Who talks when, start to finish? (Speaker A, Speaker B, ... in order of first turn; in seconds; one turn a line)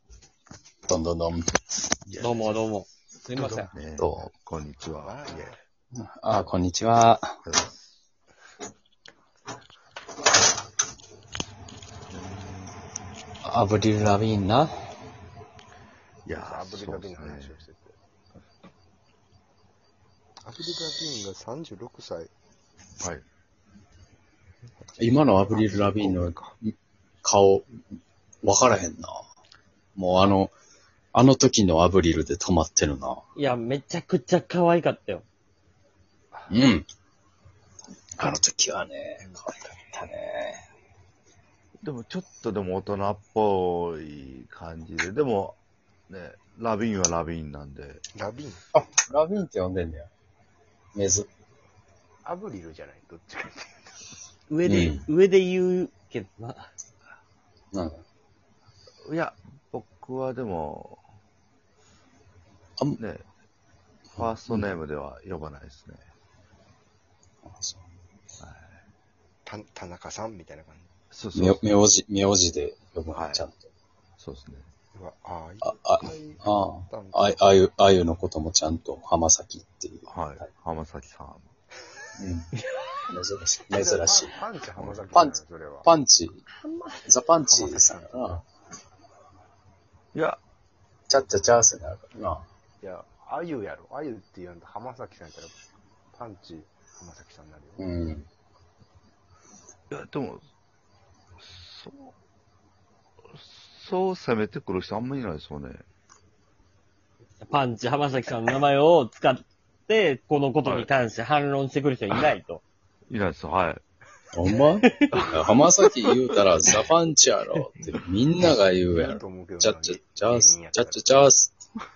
Speaker A: 0.9-1.5
Speaker B: 2.1-2.6
Speaker C: 2.2-3.7
Speaker B: 3.4-5.5
Speaker A: 4.0-4.3
Speaker D: 5.0-5.6
Speaker A: 6.0-7.4
Speaker B: 7.5-7.9
Speaker B: 12.1-12.7
Speaker A: 13.4-14.7
Speaker B: 16.3-17.6
Speaker D: 16.3-17.9
Speaker D: 20.4-22.3
Speaker D: 24.9-26.5
Speaker A: 25.0-26.7
Speaker A: 27.2-27.8
Speaker A: 28.4-29.2
Speaker A: 30.0-30.5
Speaker A: 31.1-33.2
Speaker C: 33.4-35.2
Speaker A: 36.5-36.9
Speaker A: 38.2-40.6
Speaker B: 41.8-45.6
Speaker B: 46.1-48.0
Speaker D: 48.1-48.6
Speaker A: 48.7-50.1
Speaker A: 50.9-51.3
Speaker D: 52.2-54.0
Speaker C: 54.5-56.7
Speaker A: 54.6-55.0
Speaker A: 57.7-58.0
Speaker B: 59.1-61.0
Speaker B: 63.0-63.2
Speaker A: 64.2-64.7
Speaker B: 64.2-66.0
Speaker A: 67.5-67.8
Speaker B: 68.4-68.8
Speaker D: 69.5-70.9
Speaker B: 71.1-71.7
Speaker A: 71.3-73.7
Speaker B: 73.1-73.4
Speaker B: 74.2-74.7
Speaker D: 75.0-77.4
Speaker A: 75.6-80.1
Speaker B: 80.1-81.5
Speaker A: 82.2-82.5
Speaker A: 83.1-84.4
Speaker D: 83.7-85.9
Speaker A: 85.1-86.4
Speaker C: 86.6-87.0
Speaker A: 87.1-88.4
Speaker D: 87.5-88.4
Speaker B: 90.1-90.4
Speaker A: 91.1-92.4
Speaker D: 92.8-95.6
Speaker D: 96.1-97.9
Speaker A: 97.8-98.2
Speaker B: 99.9-100.4
Speaker B: 101.4-102.1
Speaker B: 103.3-105.8
Speaker C: 107.4-112.6
Speaker B: 113.1-113.8
Speaker A: 114.3-121.5
Speaker D: 118.9-121.3